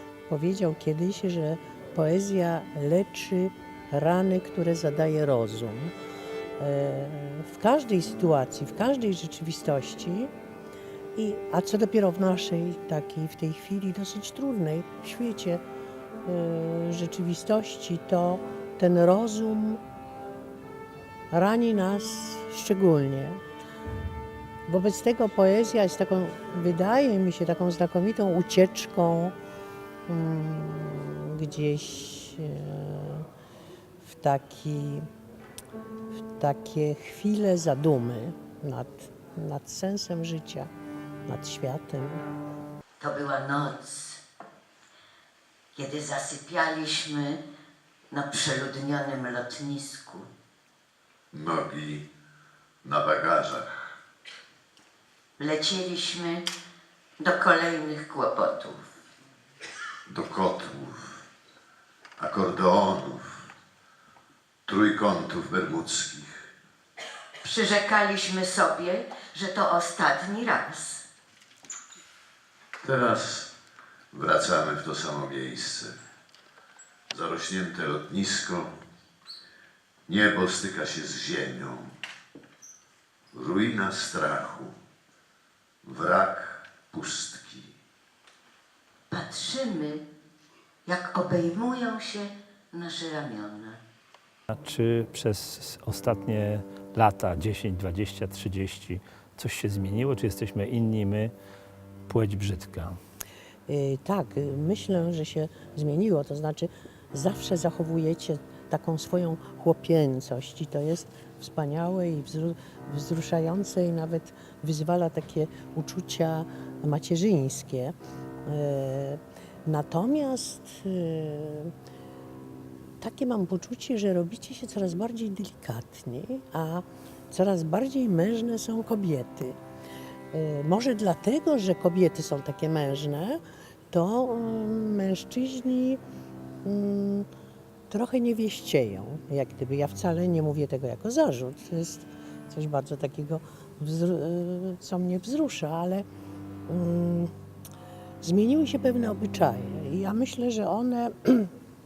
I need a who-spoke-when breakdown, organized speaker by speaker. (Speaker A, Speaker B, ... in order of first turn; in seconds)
Speaker A: 0.3-5.9, 6.6-10.3, 11.1-15.6, 16.2-19.8, 21.3-23.4, 24.7-29.4, 30.1-33.3, 34.0-35.1, 36.4-40.7, 41.3-42.2, 103.7-117.9, 118.5-121.7, 123.0-129.6, 130.3-136.0, 136.6-137.3, 137.9-146.0, 146.7-147.3, 148.2-151.5
Speaker B: 43.0-44.2, 45.7-47.4, 48.1-50.3, 55.4-56.5, 57.2-58.9, 67.4-71.0, 89.1-90.0, 90.8-93.8
Speaker C: 51.3-52.1, 52.8-53.9, 60.1-61.2, 62.2-63.5, 64.7-66.4, 72.8-73.5, 74.1-76.0, 77.1-78.7, 80.1-81.9, 83.3-84.7, 85.8-87.7
Speaker D: 94.5-101.3, 102.1-103.0